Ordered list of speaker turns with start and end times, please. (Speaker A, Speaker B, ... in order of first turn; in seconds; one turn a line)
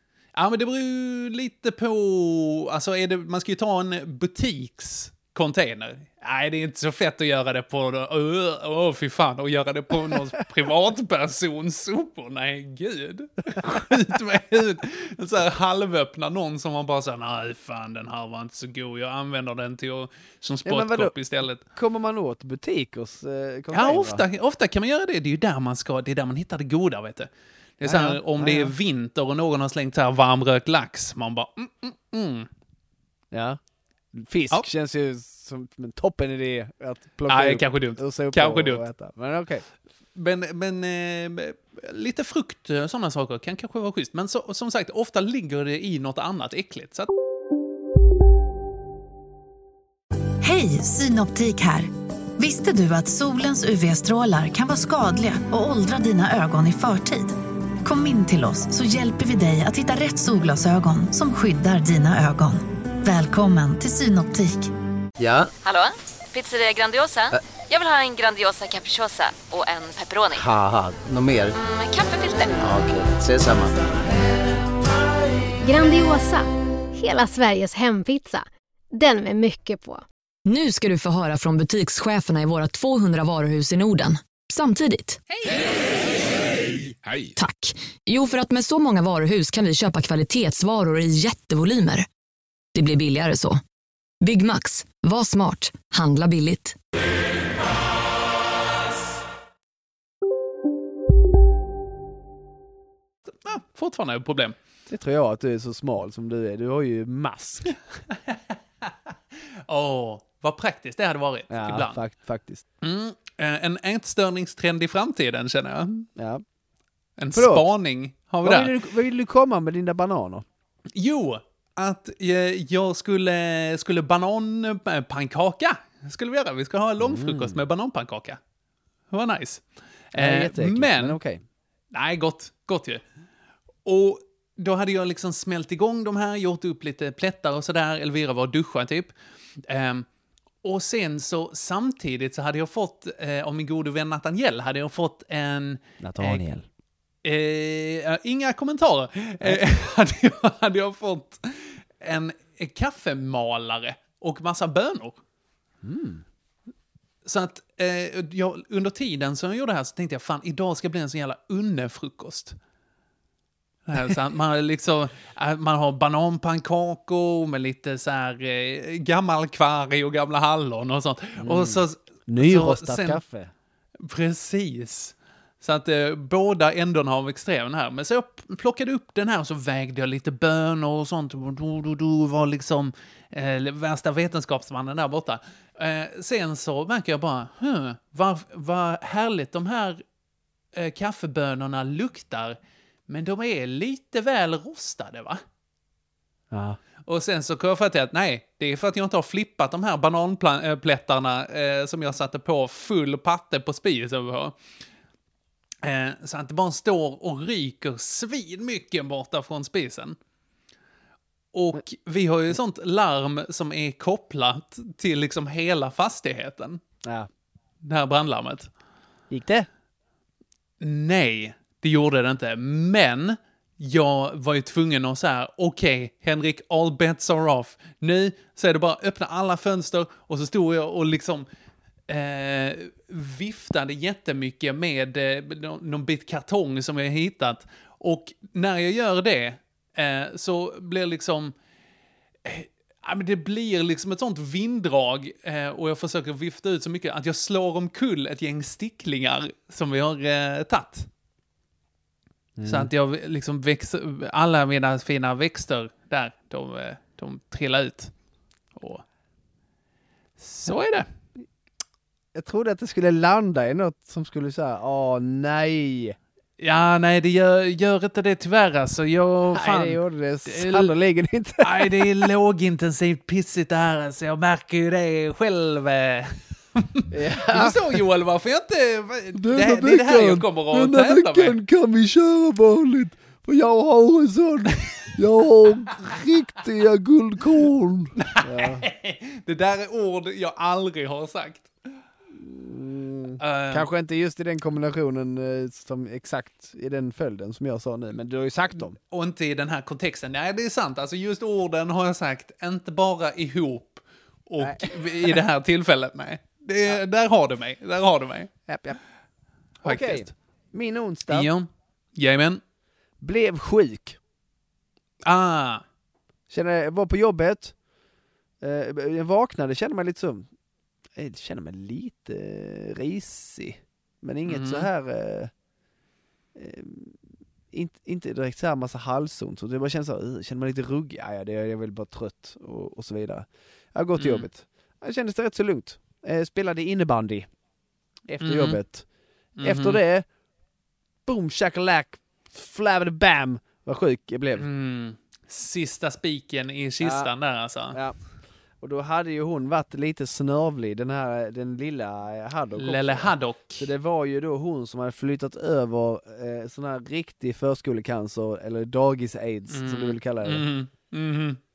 Speaker A: 0.3-21.6
Speaker B: 20.6-24.2
Speaker A: 23.7-32.5
Speaker B: 27.8-28.7
Speaker B: 33.3-33.6
Speaker B: 34.1-39.6
Speaker A: 37.3-38.9
Speaker A: 40.1-47.1
Speaker C: 50.4-64.7
Speaker D: 65.2-65.5
Speaker E: 65.6-70.4
Speaker D: 70.3-71.6
Speaker E: 71.6-72.6
Speaker D: 72.6-73.8
Speaker F: 75.6-80.0
Speaker G: 80.5-85.2
Speaker G: 87.3-92.1
Speaker G: 92.7-93.6
Speaker G: 94.2-96.8
Speaker A: 103.3-104.5
Speaker B: 104.9-107.8
Speaker A: 108.3-108.9
Speaker A: 109.7-112.0
Speaker B: 111.5-112.6
Speaker A: 112.8-116.1
Speaker B: 116.2-116.4
Speaker A: 117.2-118.7
Speaker B: 117.3-117.7
Speaker B: 118.4-120.4
Speaker A: 120.9-128.4
Speaker B: 127.0-127.6
Speaker A: 129.1-131.2
Speaker B: 130.1-131.4
Speaker A: 131.9-133.0
Speaker A: 133.8-139.1
Speaker A: 139.7-140.1
Speaker A: 140.6-146.4
Speaker B: 146.0-146.7
Speaker A: 147.2-155.2
Speaker B: 155.8-156.2
Speaker A: 157.2-162.6
Speaker A: 163.9-173.2
Speaker B: 171.4-173.5
Speaker A: 174.0-190.0
Speaker A: 190.7-192.6
Speaker A: 193.1-195.4
Speaker B: 196.5-196.8
Speaker A: 197.0-204.6
Speaker A: 205.8-210.2
Speaker A: 211.5-216.8
Speaker A: 217.8-218.7
Speaker B: 219.3-219.7
Speaker A: 220.8-231.5
Speaker A: 232.1-241.5
Speaker A: 242.4-251.1
Speaker B: 252.6-252.9
Speaker A: 252.6-258.1
Speaker A: 258.8-259.0
Speaker A: 260.4-261.1
Speaker B: 262.3-266.1
Speaker A: 266.6-270.9
Speaker B: 269.5-272.2
Speaker A: 271.6-281.6
Speaker B: 277.1-277.8
Speaker B: 279.3-288.8
Speaker A: 288.2-291.7
Speaker B: 292.4-299.0
Speaker A: 293.4-293.9
Speaker A: 299.0-308.5
Speaker B: 304.6-305.4
Speaker B: 308.7-309.0
Speaker A: 309.8-310.3
Speaker B: 309.8-311.5
Speaker A: 311.3-312.6
Speaker B: 313.2-314.2
Speaker A: 315.2-315.8
Speaker B: 316.5-317.7
Speaker B: 318.6-320.5
Speaker B: 321.1-325.5
Speaker A: 324.4-324.9
Speaker B: 326.5-327.2
Speaker B: 327.7-337.5
Speaker A: 334.2-334.5
Speaker B: 338.3-339.0
Speaker A: 338.4-338.8
Speaker A: 339.6-340.0
Speaker B: 339.6-340.2
Speaker B: 341.2-344.6
Speaker A: 344.6-348.0
Speaker B: 347.0-347.3
Speaker B: 348.8-360.6
Speaker A: 352.8-353.9
Speaker A: 359.7-361.6